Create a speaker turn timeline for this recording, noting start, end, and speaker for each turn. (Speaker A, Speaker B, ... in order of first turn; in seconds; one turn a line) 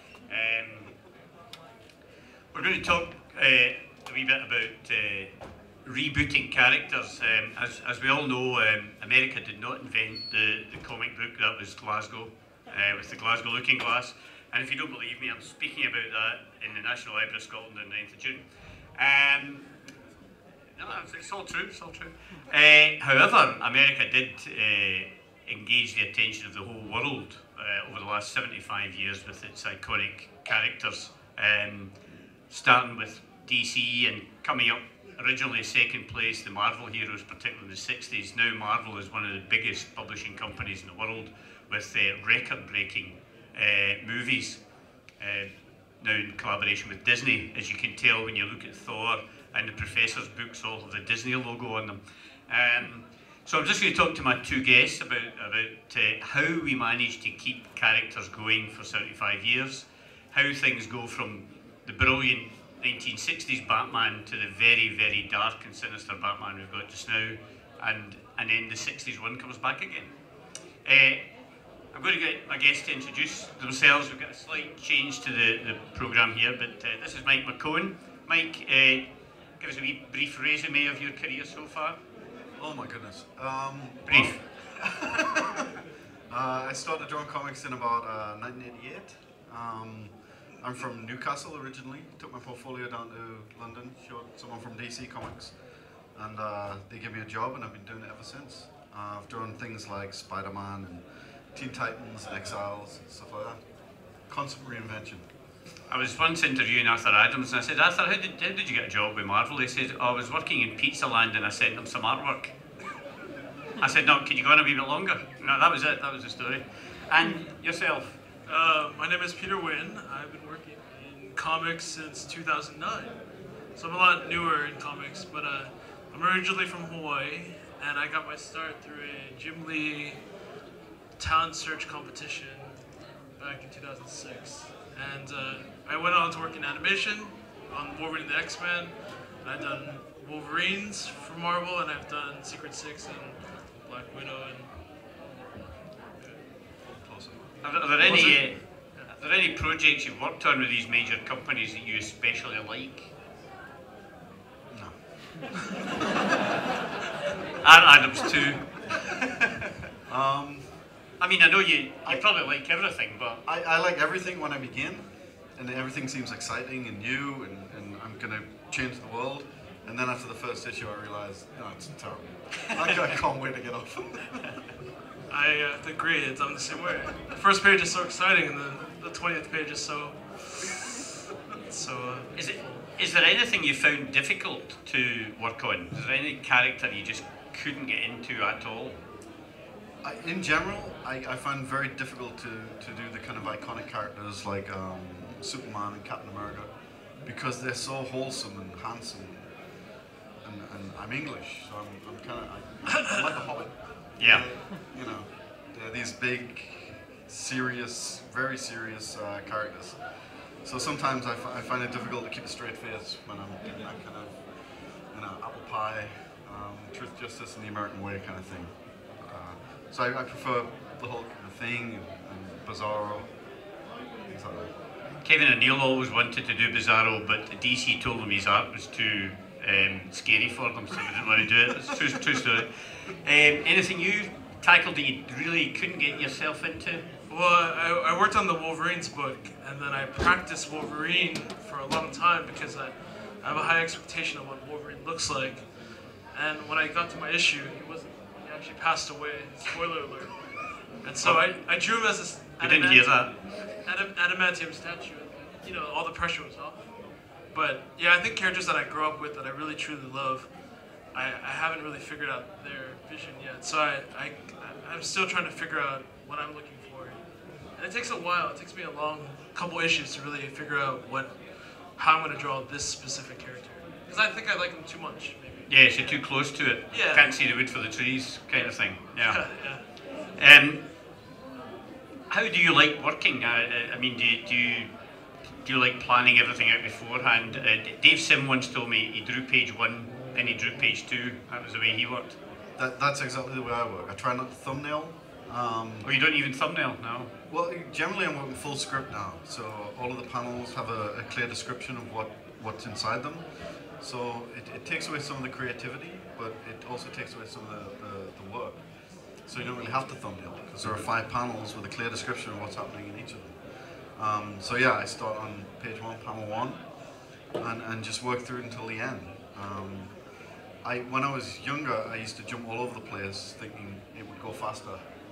Speaker A: 0.3-1.0
Speaker A: 2.5-5.3
Speaker A: 5.8-18.4
Speaker A: 19.0-19.7
Speaker A: 20.8-31.9
Speaker A: 32.5-44.6
Speaker A: 45.2-45.5
Speaker A: 46.0-70.1
Speaker A: 70.8-71.2
Speaker A: 71.9-79.1
Speaker A: 79.6-82.0
Speaker B: 82.6-85.6
Speaker A: 84.1-84.4
Speaker B: 86.3-95.6
Speaker B: 96.1-103.6
Speaker B: 104.2-105.3
Speaker A: 105.9-112.5
Speaker A: 113.8-118.2
Speaker C: 118.5-123.2
Speaker C: 123.8-130.2
Speaker C: 131.2-146.4
Speaker B: 146.8-147.8
Speaker A: 147.6-153.1
Speaker C: 148.0-149.1
Speaker B: 154.7-155.7
Speaker A: 157.6-159.0
Speaker B: 160.1-160.7
Speaker A: 161.2-163.4
Speaker B: 163.5-174.6
Speaker C: 175.3-181.0
Speaker C: 181.7-182.9
Speaker A: 182.3-189.0
Speaker B: 190.0-199.6
Speaker B: 200.4-223.7
Speaker A: 204.2-204.5
Speaker B: 224.3-224.7
Speaker A: 225.2-237.1
Speaker C: 237.3-276.2
Speaker A: 251.2-251.9
Speaker A: 252.6-253.3
Speaker A: 275.7-280.9
Speaker C: 276.9-277.6
Speaker C: 278.5-280.0
Speaker A: 282.3-284.9
Speaker A: 285.6-292.4
Speaker B: 292.8-296.1
Speaker A: 296.0-297.3
Speaker B: 297.5-325.1
Speaker A: 310.8-311.1